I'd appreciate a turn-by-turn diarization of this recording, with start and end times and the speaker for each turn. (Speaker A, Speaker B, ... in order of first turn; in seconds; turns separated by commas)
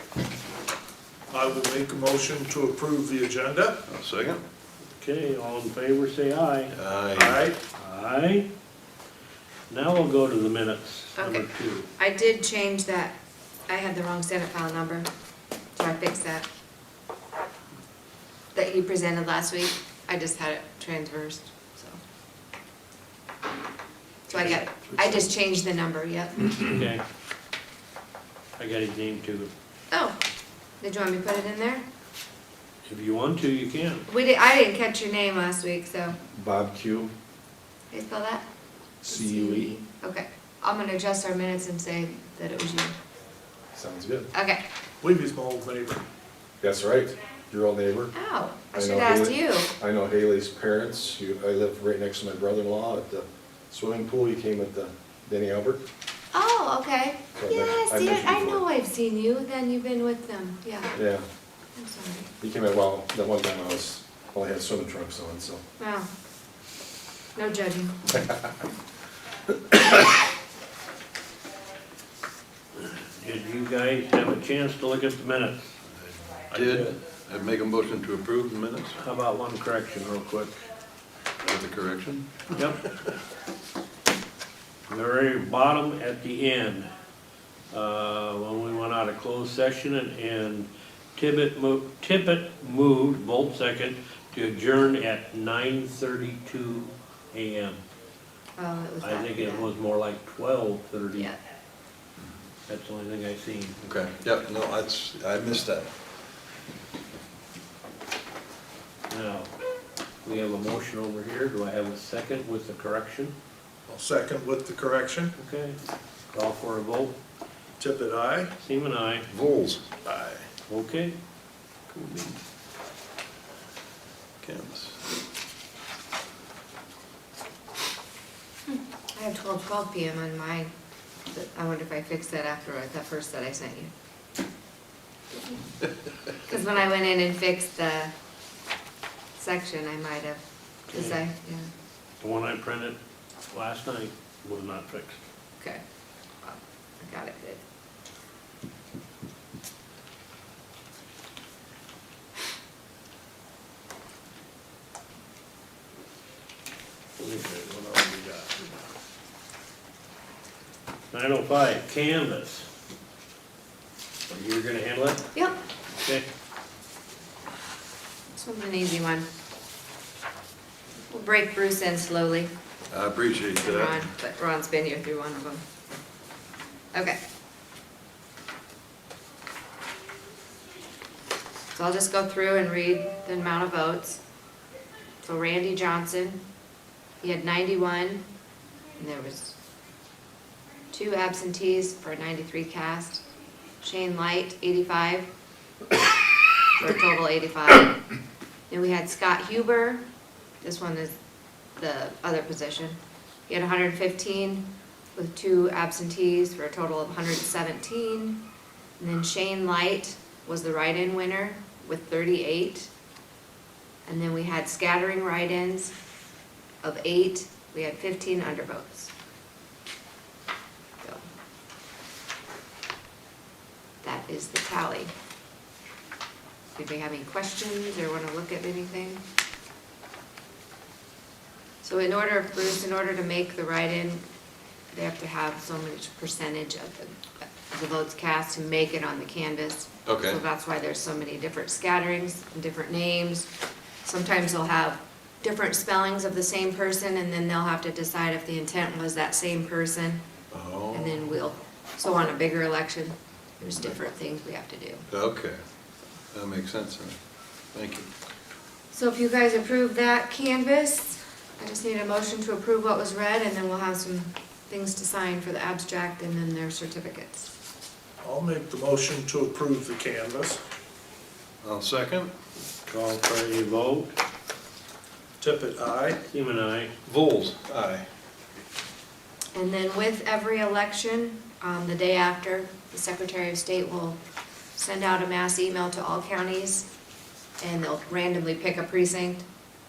Speaker A: 1.3-3.8, Speaker B: 3.9-4.4, Speaker C: 5.0-6.8, Speaker B: 6.7-7.4, Speaker A: 7.1-7.6, Speaker C: 7.7-8.5, Speaker C: 9.7-11.9, Speaker D: 11.2-13.2, Speaker D: 13.7-15.1, Speaker D: 15.8-16.5, Speaker D: 18.5-22.0, Speaker D: 24.3-26.7, Speaker C: 26.5-27.0, Speaker C: 28.6-29.5, Speaker D: 30.8-31.8, Speaker C: 32.9-34.1, Speaker D: 34.1-36.2, Speaker E: 36.3-37.1, Speaker D: 37.9-38.5, Speaker E: 39.0-39.7, Speaker D: 39.0-43.0, Speaker E: 43.7-44.3, Speaker D: 44.3-44.6, Speaker A: 45.0-46.0, Speaker E: 46.6-48.1, Speaker D: 48.1-49.7, Speaker E: 48.7-55.8, Speaker D: 56.3-61.0, Speaker E: 57.4-58.6, Speaker E: 61.0-61.2, Speaker D: 61.8-62.3, Speaker E: 62.4-65.6, Speaker D: 65.8-66.1, Speaker D: 67.4-68.0, Speaker C: 72.8-75.7, Speaker C: 76.5-77.0, Speaker B: 76.5-79.0, Speaker C: 79.0-80.5, Speaker B: 81.4-82.5, Speaker C: 82.5-82.9, Speaker C: 84.9-86.9, Speaker C: 87.7-97.8, Speaker D: 98.6-99.7, Speaker C: 99.0-101.3, Speaker C: 102.7-103.8, Speaker B: 103.8-105.9, Speaker C: 109.1-109.5, Speaker C: 110.2-113.3, Speaker A: 113.9-115.3, Speaker C: 115.4-115.8, Speaker C: 116.3-117.2, Speaker A: 117.8-118.5, Speaker C: 118.6-119.3, Speaker B: 119.3-120.5, Speaker C: 120.7-121.2, Speaker C: 122.0-122.2, Speaker B: 122.1-122.3, Speaker B: 124.4-125.0, Speaker D: 128.7-130.7, Speaker D: 131.3-133.9, Speaker D: 135.3-135.7, Speaker D: 136.3-138.1, Speaker D: 139.4-141.7, Speaker C: 140.9-141.2, Speaker C: 142.2-143.0, Speaker C: 143.5-145.2, Speaker D: 146.4-147.6, Speaker C: 157.2-158.7, Speaker C: 161.1-162.7, Speaker C: 164.3-165.3, Speaker C: 166.0-166.2, Speaker D: 168.3-169.3, Speaker D: 171.1-172.5, Speaker B: 172.9-174.0, Speaker D: 173.6-175.6, Speaker D: 176.9-177.2, Speaker D: 181.7-184.2, Speaker D: 185.2-186.4, Speaker D: 187.2-188.2, Speaker D: 189.0-189.5, Speaker D: 190.9-193.2, Speaker D: 193.8-195.3, Speaker D: 196.8-198.0, Speaker D: 198.7-200.0, Speaker D: 200.6-201.2, Speaker D: 201.8-208.4, Speaker D: 209.0-212.9, Speaker D: 214.1-215.9, Speaker D: 216.8-219.1, Speaker D: 224.0-225.1, Speaker D: 226.8-229.2, Speaker D: 231.8-234.2, Speaker D: 234.9-243.5, Speaker B: 240.1-240.4, Speaker D: 244.1-250.2, Speaker B: 250.5-251.3, Speaker D: 250.9-255.0, Speaker B: 255.1-255.6, Speaker B: 256.3-257.2, Speaker B: 257.7-258.1, Speaker D: 258.9-267.5, Speaker A: 268.2-270.6, Speaker B: 271.6-272.3, Speaker C: 272.9-274.1, Speaker A: 275.4-276.2, Speaker C: 276.2-276.9, Speaker B: 277.1-278.1, Speaker D: 279.6-284.2, Speaker D: 284.8-286.9, Speaker D: 287.6-289.4